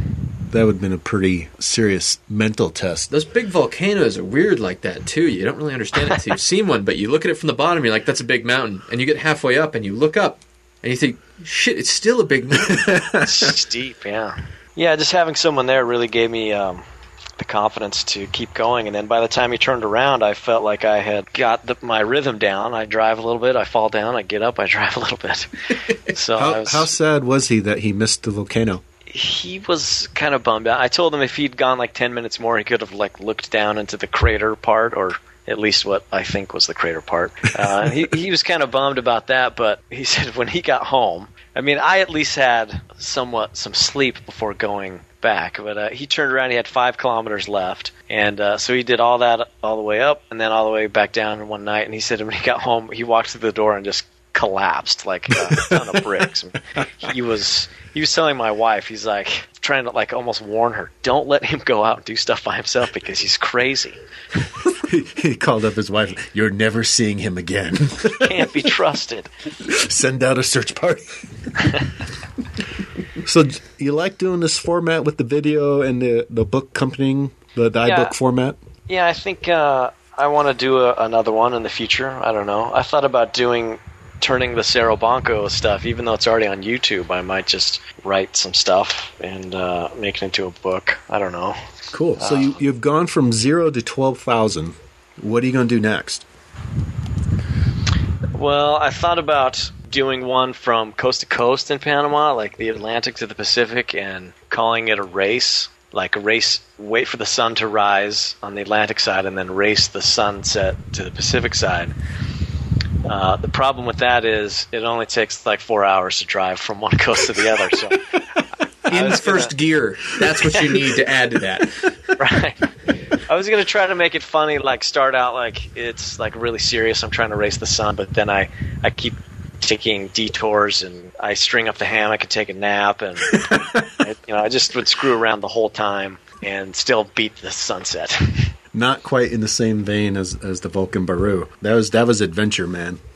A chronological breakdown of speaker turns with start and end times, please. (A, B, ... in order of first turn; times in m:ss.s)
0:00.5-0:03.1 A
0:03.1-0:13.0 B
0:12.6-0:13.5 A
0:13.2-0:16.8 C
0:17.4-0:26.9 C
0:26.4-0:28.8 A
0:29.1-1:04.0 C
0:55.3-0:56.2 A
1:04.8-1:08.7 A
1:08.1-1:09.3 C
1:09.6-1:11.5 A
1:13.2-1:18.6 A
1:17.8-1:18.1 C
1:18.9-1:31.6 C
1:31.9-1:36.2 A
1:32.2-1:32.6 C
1:38.3-1:51.9 C
1:53.0-1:58.2 C
1:58.9-2:02.0 B
1:58.9-1:59.5 C
2:02.2-2:18.5 C
2:13.3-2:13.9 A
2:18.7-2:23.0 A